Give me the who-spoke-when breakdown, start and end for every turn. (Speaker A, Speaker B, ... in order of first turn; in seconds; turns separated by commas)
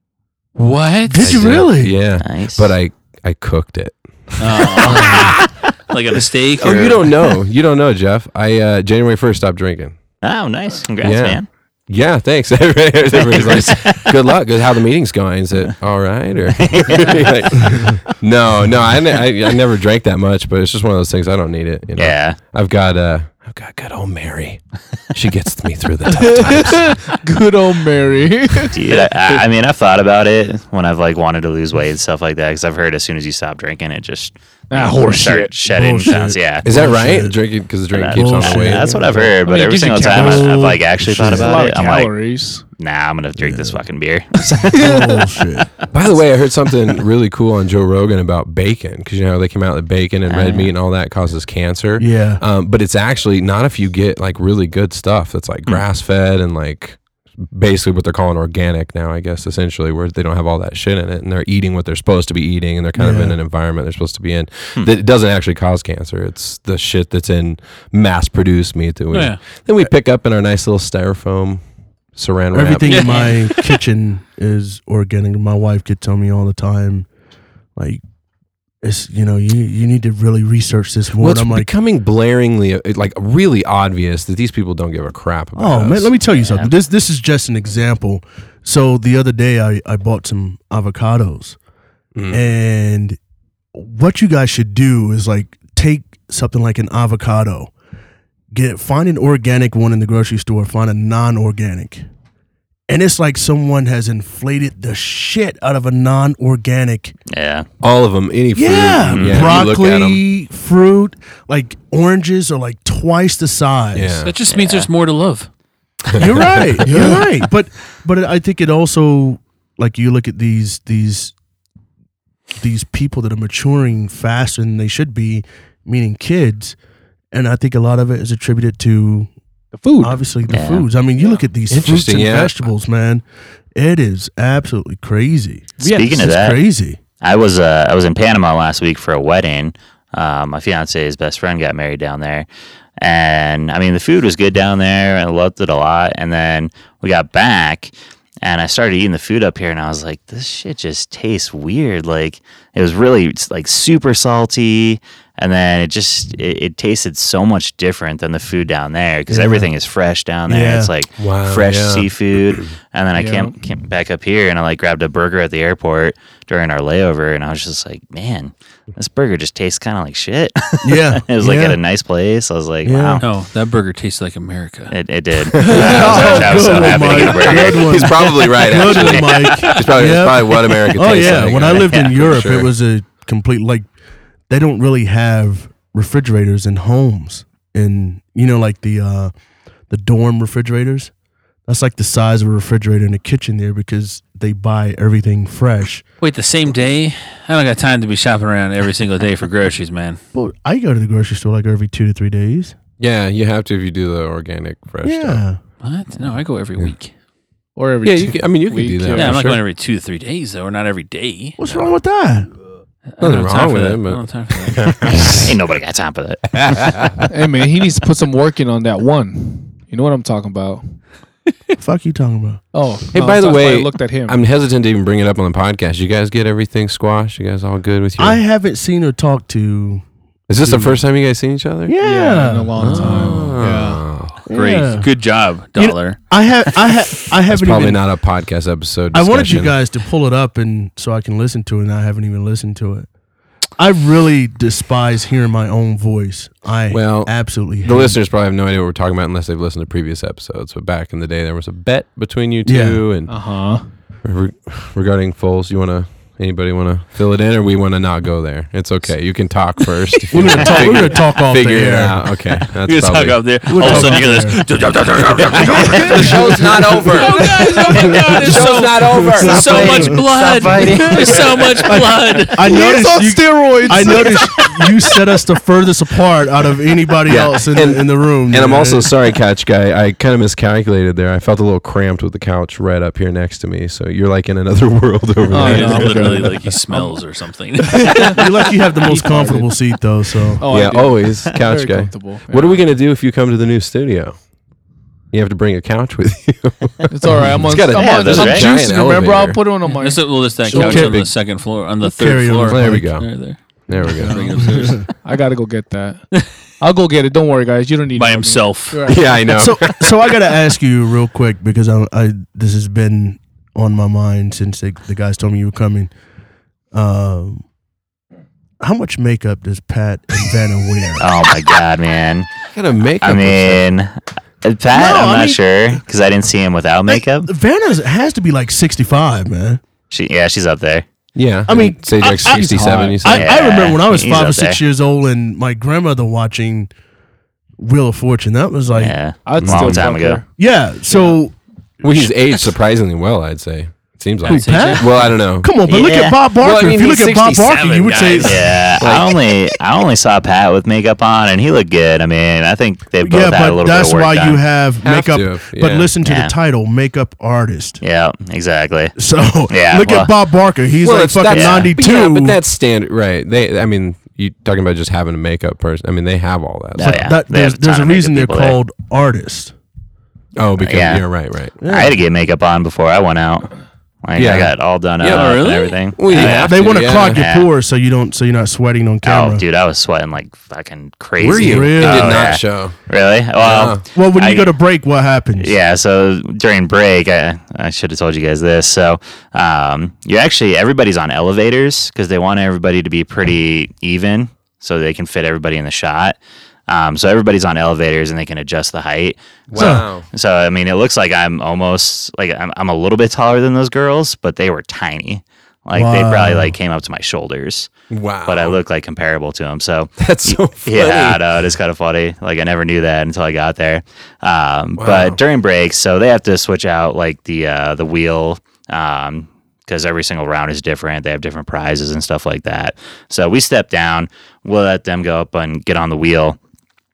Speaker A: 0.6-1.5, Speaker B: 1.1-2.0, Speaker C: 1.2-5.4, Speaker D: 2.2-2.7, Speaker A: 4.4-7.2, Speaker C: 6.6-10.0, Speaker D: 10.2-11.5, Speaker C: 11.0-27.0, Speaker D: 13.2-14.1, Speaker D: 16.7-17.2, Speaker D: 21.9-22.4, Speaker E: 26.1-28.8, Speaker D: 28.7-36.7, Speaker E: 34.7-35.6, Speaker B: 35.6-37.4, Speaker C: 36.6-39.3, Speaker D: 37.9-44.9, Speaker B: 38.1-39.3, Speaker E: 39.4-40.7, Speaker B: 40.0-41.8, Speaker E: 41.3-42.6, Speaker B: 43.4-43.8, Speaker B: 44.7-45.7, Speaker E: 44.8-45.0, Speaker C: 45.9-71.6, Speaker D: 50.3-50.7, Speaker B: 52.0-52.4, Speaker B: 63.0-63.4, Speaker A: 69.1-69.4, Speaker C: 72.1-73.3, Speaker B: 72.5-77.1, Speaker A: 72.8-73.8, Speaker B: 77.8-78.0, Speaker B: 78.8-81.7, Speaker C: 81.2-86.1, Speaker B: 85.5-91.6, Speaker D: 86.3-86.7, Speaker C: 92.1-92.5, Speaker B: 92.3-93.2, Speaker B: 93.7-97.7, Speaker B: 98.5-102.0, Speaker B: 102.9-107.2, Speaker D: 107.3-107.7, Speaker C: 107.8-110.2, Speaker B: 108.5-114.2, Speaker D: 109.1-109.6, Speaker C: 113.9-114.3, Speaker A: 114.2-115.5, Speaker D: 114.5-114.9, Speaker C: 116.1-117.2, Speaker B: 116.2-121.3, Speaker E: 116.9-117.2, Speaker B: 122.6-126.8, Speaker B: 127.3-129.3, Speaker E: 129.7-130.2, Speaker B: 130.0-133.2, Speaker D: 130.5-130.9, Speaker C: 131.7-132.6, Speaker B: 133.7-137.0, Speaker E: 135.8-136.2, Speaker D: 135.8-136.6, Speaker D: 137.2-142.5, Speaker D: 143.0-173.2, Speaker B: 159.3-159.7, Speaker B: 160.5-160.9, Speaker C: 161.2-162.7, Speaker E: 163.1-163.6, Speaker B: 170.8-171.8, Speaker B: 172.8-173.2, Speaker A: 173.2-174.9, Speaker D: 174.9-178.1, Speaker C: 175.5-182.7, Speaker B: 175.7-183.9, Speaker A: 179.5-179.8, Speaker D: 181.6-182.1, Speaker B: 184.5-189.3, Speaker B: 189.9-191.1, Speaker B: 191.6-196.0, Speaker A: 196.2-200.2, Speaker B: 200.3-202.7, Speaker C: 203.0-205.4, Speaker B: 205.0-205.6, Speaker A: 205.8-207.1, Speaker E: 207.8-209.4, Speaker C: 208.0-209.6, Speaker A: 209.1-211.8, Speaker B: 211.6-212.5, Speaker A: 213.1-215.4, Speaker C: 213.2-215.5, Speaker D: 215.2-216.5, Speaker C: 216.5-217.2, Speaker E: 217.3-220.9, Speaker B: 221.8-222.7, Speaker E: 222.7-224.4, Speaker C: 223.1-228.4, Speaker B: 228.2-230.1, Speaker C: 230.5-231.9, Speaker B: 230.6-231.0, Speaker B: 231.8-233.6, Speaker E: 232.0-234.0, Speaker C: 232.7-234.4, Speaker B: 234.4-235.1, Speaker A: 234.5-236.3, Speaker B: 235.8-238.0, Speaker C: 237.5-239.8, Speaker B: 239.1-243.1, Speaker B: 243.8-248.2, Speaker C: 246.9-253.4, Speaker B: 252.6-253.1, Speaker E: 253.3-253.9, Speaker C: 254.2-264.2, Speaker B: 260.3-262.2, Speaker A: 260.4-261.0, Speaker A: 262.8-272.8, Speaker B: 263.7-264.6, Speaker C: 265.4-271.2, Speaker B: 265.6-266.6, Speaker E: 265.9-266.3, Speaker E: 267.0-268.4, Speaker B: 268.2-270.2, Speaker B: 271.8-279.1, Speaker E: 272.6-274.7, Speaker C: 277.2-286.7, Speaker E: 285.5-286.7, Speaker A: 285.5-288.6, Speaker E: 288.0-288.4, Speaker B: 288.2-290.6, Speaker E: 289.0-289.8, Speaker E: 290.6-292.8, Speaker C: 290.7-294.5, Speaker C: 295.3-299.6, Speaker E: 297.1-301.0, Speaker D: 297.9-298.7, Speaker A: 299.9-305.2, Speaker B: 300.7-301.3, Speaker C: 300.7-301.3, Speaker B: 302.0-303.1, Speaker C: 302.7-304.6, Speaker E: 304.0-306.2, Speaker B: 304.6-305.1, Speaker E: 306.8-309.4, Speaker A: 308.1-309.2, Speaker C: 309.0-310.4, Speaker B: 309.5-316.1, Speaker B: 316.9-317.6, Speaker B: 318.8-321.2, Speaker D: 321.2-322.5, Speaker C: 322.7-323.8, Speaker D: 323.2-327.5, Speaker B: 324.9-326.0, Speaker B: 327.1-329.8, Speaker D: 330.1-331.0, Speaker C: 331.3-333.5, Speaker B: 331.7-336.9, Speaker E: 332.5-333.2, Speaker D: 333.3-334.8, Speaker B: 337.8-339.3, Speaker D: 338.9-340.4, Speaker E: 339.4-340.5, Speaker C: 339.6-340.0, Speaker B: 340.6-341.6, Speaker C: 342.0-345.8, Speaker A: 344.4-345.3, Speaker B: 344.4-348.8, Speaker D: 345.8-346.4, Speaker C: 346.6-348.3, Speaker A: 348.0-348.5, Speaker D: 348.4-354.6, Speaker C: 349.0-349.3, Speaker B: 353.2-358.0, Speaker C: 355.0-356.1, Speaker D: 356.2-356.5, Speaker D: 358.0-359.1, Speaker B: 359.1-362.6, Speaker D: 359.7-360.3, Speaker C: 361.0-367.3, Speaker D: 361.5-361.9, Speaker D: 367.0-368.8, Speaker B: 367.0-369.7, Speaker C: 370.6-371.8, Speaker D: 370.8-371.3, Speaker B: 371.8-372.2, Speaker D: 371.8-373.7, Speaker D: 374.2-377.7, Speaker C: 374.4-377.4, Speaker A: 375.3-376.0, Speaker B: 376.3-379.6, Speaker D: 379.2-384.7, Speaker C: 381.4-383.0, Speaker B: 381.6-382.5, Speaker C: 383.6-384.0, Speaker B: 384.1-385.8, Speaker D: 385.6-396.4, Speaker D: 396.9-407.9, Speaker C: 399.7-400.2, Speaker B: 399.8-400.1, Speaker B: 405.9-406.8, Speaker C: 408.1-408.8, Speaker D: 408.4-426.6, Speaker C: 410.2-411.4, Speaker C: 415.0-415.4